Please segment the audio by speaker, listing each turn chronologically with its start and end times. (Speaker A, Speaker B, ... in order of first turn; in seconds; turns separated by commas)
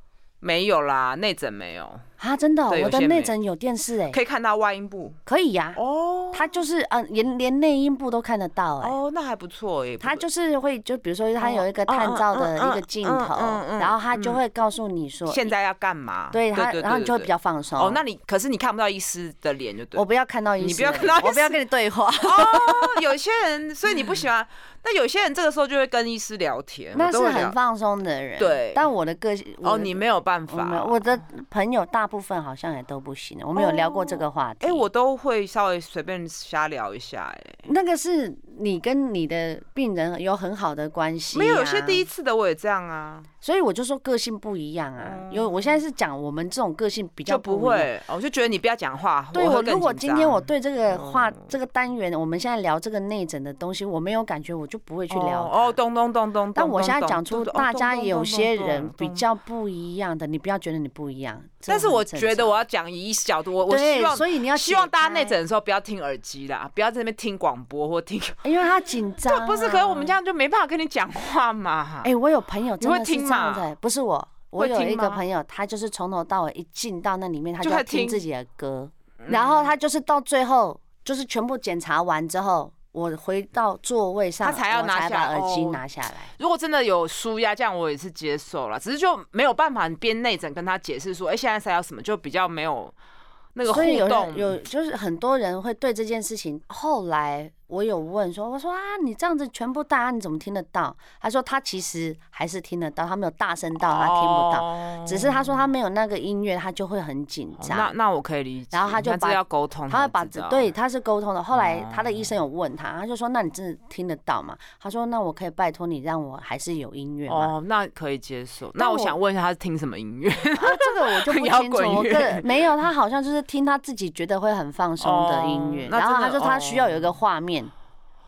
Speaker A: 0.4-2.0, Speaker B: 2.2-4.2, Speaker A: 2.7-3.3, Speaker A: 4.1-5.2, Speaker B: 5.2-5.8, Speaker A: 5.7-6.6, Speaker B: 6.3-9.0, Speaker A: 8.8-10.2, Speaker B: 10.0-15.5, Speaker A: 11.4-14.4, Speaker A: 15.3-20.0, Speaker B: 16.3-18.0, Speaker B: 19.9-23.0, Speaker A: 20.6-21.6, Speaker A: 22.2-27.6, Speaker B: 26.9-34.8, Speaker A: 28.4-28.9, Speaker A: 29.6-31.2, Speaker A: 33.5-37.6, Speaker B: 37.6-42.0, Speaker A: 41.3-43.3, Speaker B: 43.4-47.9, Speaker A: 45.0-45.8, Speaker A: 47.3-51.5, Speaker B: 49.3-55.8, Speaker A: 55.1-59.2, Speaker B: 56.5-62.6, Speaker A: 61.7-68.5, Speaker B: 63.6-65.4, Speaker B: 68.4-70.2, Speaker A: 69.2-72.1, Speaker B: 72.0-86.3, Speaker A: 72.8-73.7, Speaker A: 74.6-75.2, Speaker A: 77.6-78.2, Speaker A: 79.2-79.7, Speaker A: 84.4-85.8, Speaker A: 86.3-93.0, Speaker A: 93.5-94.6, Speaker B: 93.7-107.9, Speaker A: 103.8-105.6, Speaker A: 107.6-110.7, Speaker B: 108.7-117.5, Speaker A: 111.5-112.3, Speaker A: 117.3-122.7, Speaker B: 118.8-119.1, Speaker B: 120.6-127.7, Speaker A: 125.0-127.1